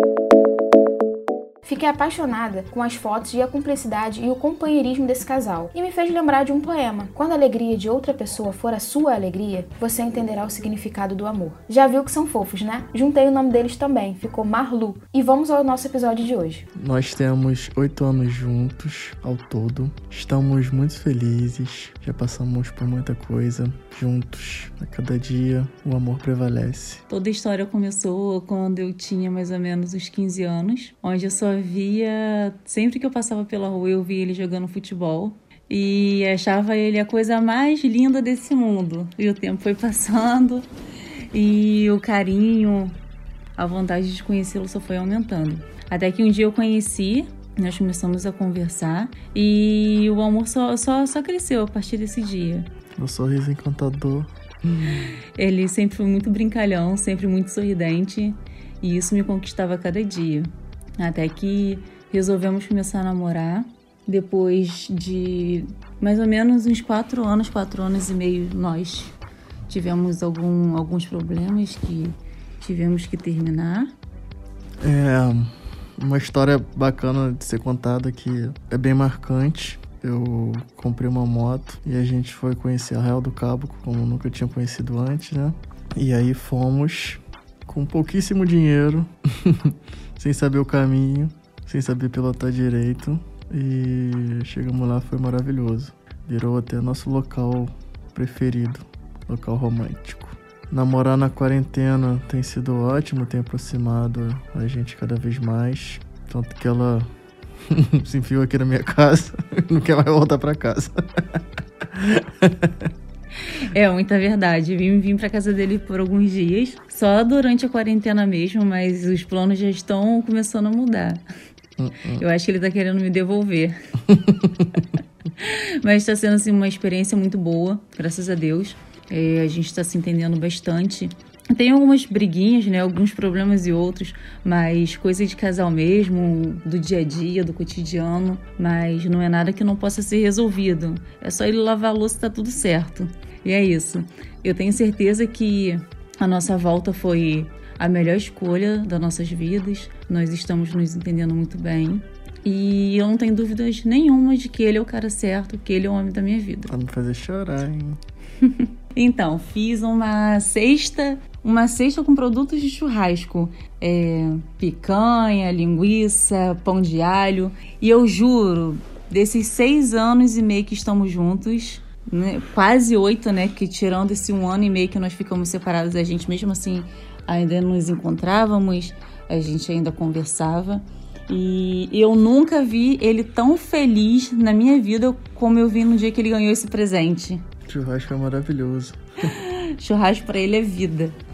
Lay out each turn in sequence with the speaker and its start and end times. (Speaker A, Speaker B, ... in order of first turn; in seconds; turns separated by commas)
Speaker A: 1.6-16.7, Speaker B: 16.8-27.0, Speaker C: 27.1-40.7, Speaker C: 41.3-42.9, Speaker C: 43.5-52.7, Speaker B: 53.0-55.1, Speaker C: 54.9-69.1, Speaker C: 69.7-73.9, Speaker B: 74.8-107.1, Speaker B: 107.7-112.9, Speaker C: 113.6-121.2, Speaker B: 121.8-122.2, Speaker C: 122.1-123.8, Speaker B: 124.1-124.6, Speaker C: 125.4-156.7, Speaker B: 156.7-158.0, Speaker C: 158.4-187.4, Speaker B: 187.7-189.0, Speaker C: 189.3-191.1